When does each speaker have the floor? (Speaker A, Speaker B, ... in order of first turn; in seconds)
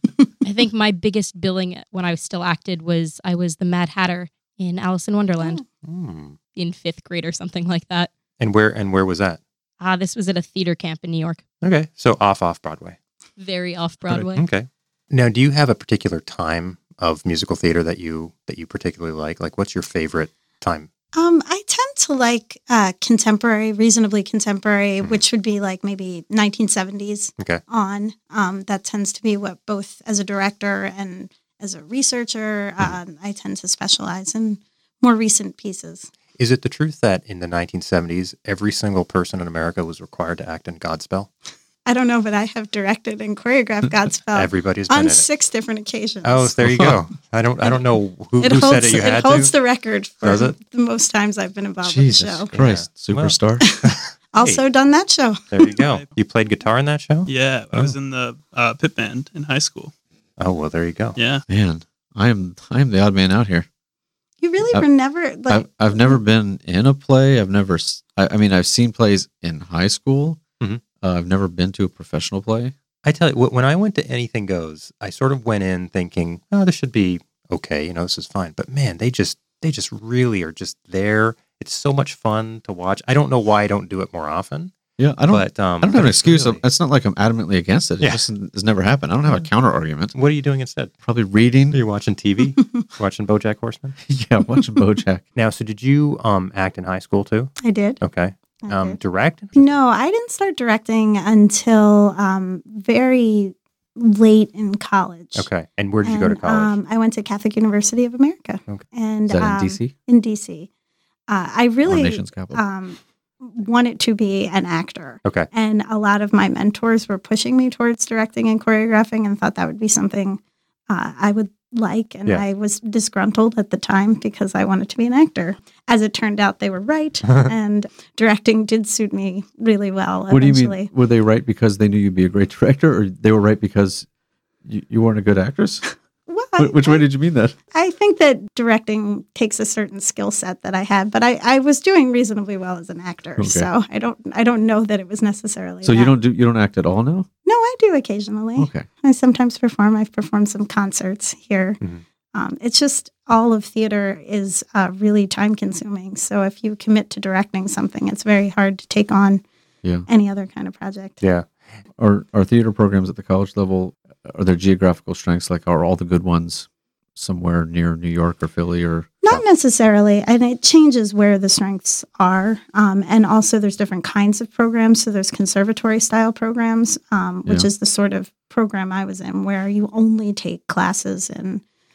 Speaker A: 0.4-5.6, 6.5-8.1, 9.8-11.4, 13.4-14.4
Speaker B: 5.8-6.4, 8.4-9.4, 11.6-13.0, 14.1-20.9, 36.4-41.3, 44.3-45.3, 46.2-49.5, 50.2-50.5, 52.5-54.6, 55.5-57.9, 60.4-61.2, 73.0-84.7, 85.3-86.6, 90.1-90.9, 91.7-94.0, 95.3-99.8, 105.3-106.8, 115.2-115.5, 161.2-161.5
Speaker C: 21.1-36.1, 41.9-46.5, 48.4-52.5, 53.6-55.5, 64.4-66.2, 97.6-98.0, 98.6-99.0, 99.5-105.5, 106.0-110.7, 111.3-130.9, 136.3-137.1, 137.7-146.2, 147.4-151.8, 152.3-159.4, 160.1-161.2, 169.2-181.6
Speaker D: 46.6-47.0, 51.8-53.7, 61.5-63.7, 65.5-70.4, 71.0-72.7, 85.0-90.1, 91.0-91.8, 94.1-95.2, 109.3-109.9, 111.8-112.6, 130.3-134.1, 134.6-135.9, 136.6-137.6, 143.4-143.7, 145.8-147.3, 148.6-148.9, 162.0-169.4
Speaker E: 55.7-56.1, 57.3-59.9, 61.1-61.4